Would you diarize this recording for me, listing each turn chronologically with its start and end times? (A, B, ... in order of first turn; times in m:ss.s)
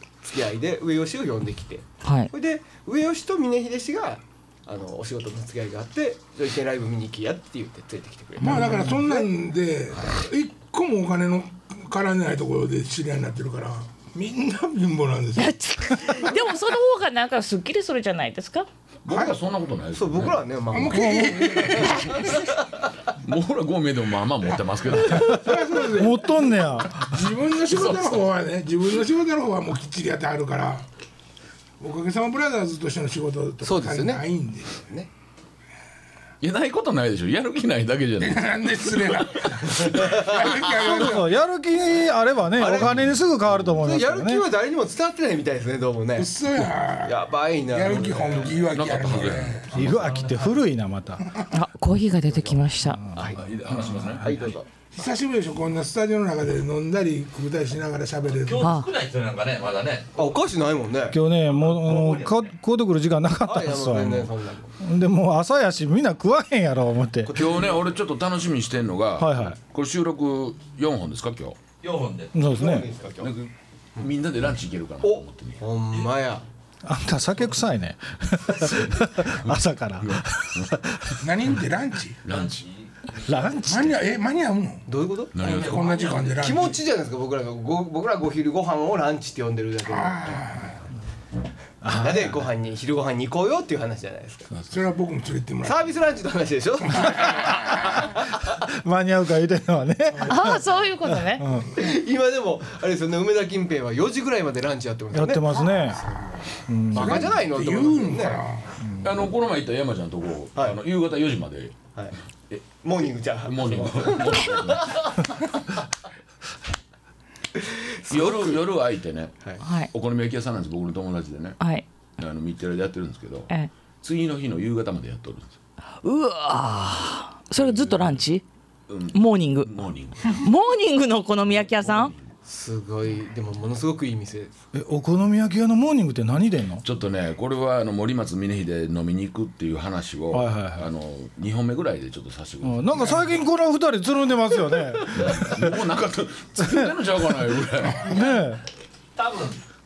0:00.2-0:09.3 A
0:02.0-0:02.3 B
0:08.4-0:16.4 C
0:15.4-0:18.7 B
0:19.0-0:20.4 D
0:19.1-0:19.4 C
0:19.9-0:22.4 A
0:20.7-0:22.3 C
0:20.9-0:21.4 E
0:23.2-0:25.4 D
0:25.1-0:27.0 E
0:25.1-0:30.8 C
0:27.7-0:28.2 D
0:31.8-0:34.8 C
0:33.6-0:35.1 A
0:36.4-0:38.4 D
0:38.2-0:41.3 C
0:40.0-0:40.5 A
0:40.8-0:44.5 E
0:42.6-0:46.3 A
0:46.2-0:49.9 C
0:47.0-0:48.6 A
0:48.5-0:50.1 D
0:49.7-0:51.2 E
0:49.9-0:50.3 F
0:51.5-0:53.0 B
0:52.3-0:52.6 A
0:52.8-0:54.6 E
0:53.1-0:54.7 A
0:53.2-0:54.3 D
0:54.9-0:58.7 C
0:58.4-1:00.2 F
0:58.6-0:58.9 B
1:00.2-1:01.2 A
1:01.1-1:07.3 E
1:01.6-1:02.5 F
1:03.4-1:04.7 A
1:07.3-1:07.8 A
1:07.3-1:11.6 D
1:09.2-1:09.6 E
1:11.8-1:12.3 F
1:12.3-1:12.9 E
1:12.4-1:13.3 A
1:13.2-1:15.6 D
1:15.0-1:16.4 A
1:16.8-1:21.2 E
1:18.8-1:20.8 D
1:21.2-1:22.2 C
1:22.2-1:22.6 D
1:22.3-1:23.3 F
1:23.2-1:24.0 E
1:23.6-1:24.8 C
1:24.9-1:25.4 A
1:25.3-1:25.9 D
1:25.4-1:26.8 C
1:25.4-1:26.5 F
1:26.4-1:30.3 A
1:29.8-1:30.8 C
1:31.8-1:32.4 E
1:31.9-1:34.5 A
1:34.7-1:35.9 C
1:35.6-1:38.5 A
1:36.9-1:37.9 C
1:38.4-1:41.7 E
1:40.2-1:41.4 B
1:41.7-1:46.1 A
1:45.1-1:46.0 E
1:46.7-1:47.4 E
1:46.9-1:48.4 A
1:46.9-1:48.8 C
1:48.8-1:49.1 E
1:49.0-1:51.8 D
1:50.5-1:50.8 A
1:52.7-1:55.3 A
1:53.4-1:55.1 D
1:57.5-1:58.7 A
1:58.1-1:59.3 D
1:59.6-1:59.9 B
1:59.9-2:01.6 D
2:01.6-2:01.8 B
2:02.2-2:03.5 D
2:04.0-2:05.5 D
2:06.0-2:08.4 B
2:08.9-2:10.4 D
2:09.1-2:12.1 B
2:11.8-2:12.1 D
2:12.4-2:14.6 A
2:14.7-2:16.8 E
2:16.8-2:23.2 D
2:20.3-2:20.9 E
2:22.6-2:25.8 E
2:25.1-2:28.1 D
2:26.6-2:26.9 E
2:28.0-2:28.6 E
2:29.2-2:29.6 F